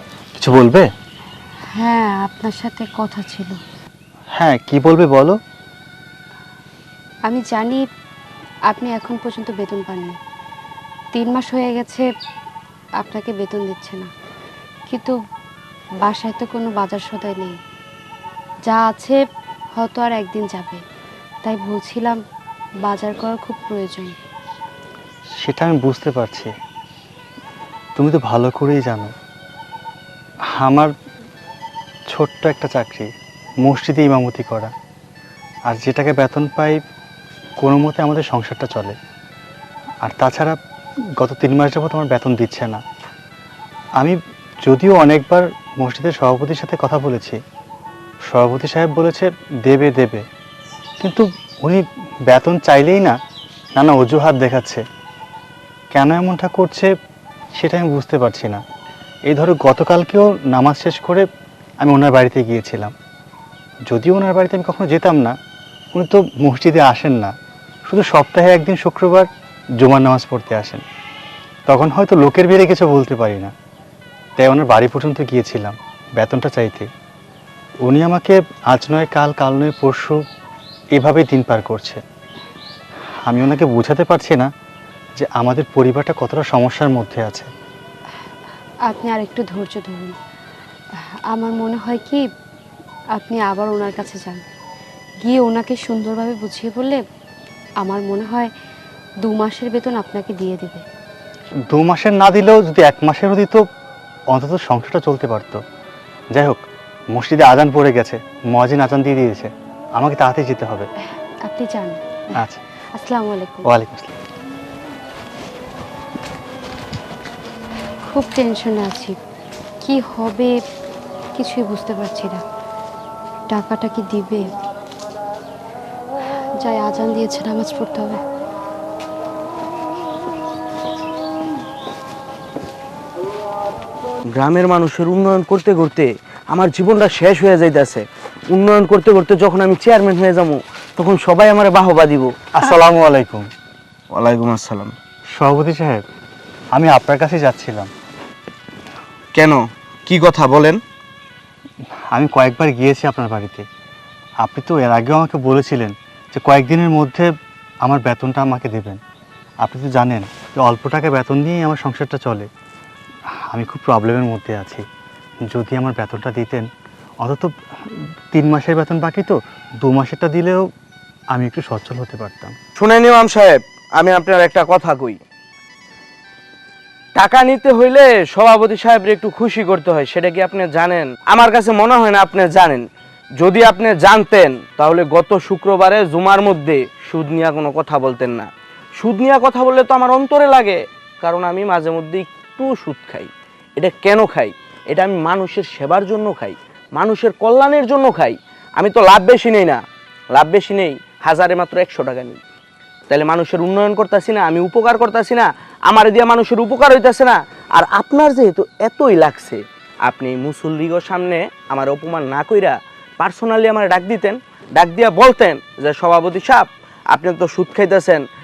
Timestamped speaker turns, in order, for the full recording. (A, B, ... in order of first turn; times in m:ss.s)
0:00.4-0:00.9 A
0:01.7-0:03.6 B
0:04.4-0:05.4 A
0:07.2-0:07.8 B
0:08.7-0:10.2 B
0:11.1-0:12.1 B
0:13.0-0:14.1 B
0:14.9-0:15.2 B
0:16.0-0:17.6 B
0:18.7-0:19.2 B
0:19.8-0:20.8 B
0:21.4-0:22.2 B
0:22.8-0:24.2 B
0:25.4-0:26.5 A
0:27.9-0:29.1 A
0:30.5-0:30.9 A
0:32.1-0:33.1 A
0:33.6-0:34.7 A
0:35.7-0:36.8 A
0:37.6-0:39.0 A
0:40.0-0:40.6 A
0:41.2-0:42.8 A
0:44.0-0:47.4 A
0:48.2-0:50.2 A
0:51.0-0:53.2 A
0:53.8-0:54.8 A
0:55.9-0:56.9 A
0:57.6-0:58.6 A
0:59.3-1:01.3 A
1:01.8-1:02.9 A
1:03.9-1:05.3 A
1:05.9-1:07.3 A
1:07.9-1:10.8 A
1:11.7-1:13.5 A
1:14.4-1:16.9 A
1:17.8-1:20.2 A
1:20.9-1:22.0 A
1:23.2-1:24.5 A
1:25.2-1:27.5 A
1:28.9-1:30.2 B
1:31.3-1:32.3 B
1:33.1-1:34.4 B
1:35.2-1:37.0 B
1:37.8-1:38.5 B
1:39.2-1:40.8 B
1:41.7-1:43.6 A
1:44.3-1:45.6 A
1:46.3-1:50.9 A
1:51.4-1:52.2 B
1:52.3-1:52.6 A
1:52.9-1:53.7 B
1:53.6-1:54.1 A
1:58.0-1:59.2 B
1:59.8-2:00.6 B
2:01.4-2:02.4 B
2:03.5-2:04.5 B
2:06.6-2:08.2 B
2:14.3-2:22.3 C
2:22.5-2:23.5 A
2:24.1-2:25.0 C
2:25.4-2:26.0 A
2:26.7-2:27.9 A
2:29.3-2:30.8 C
2:32.1-2:33.6 A
2:34.4-2:37.3 A
2:37.8-2:39.0 A
2:39.6-2:42.5 A
2:43.5-2:44.8 A
2:45.5-2:46.7 A
2:47.2-2:50.7 A
2:51.3-2:52.6 A
2:52.8-2:55.2 C
2:57.2-3:02.8 C
3:03.4-3:19.8 C
3:20.3-3:22.4 C
3:23.1-3:38.2 C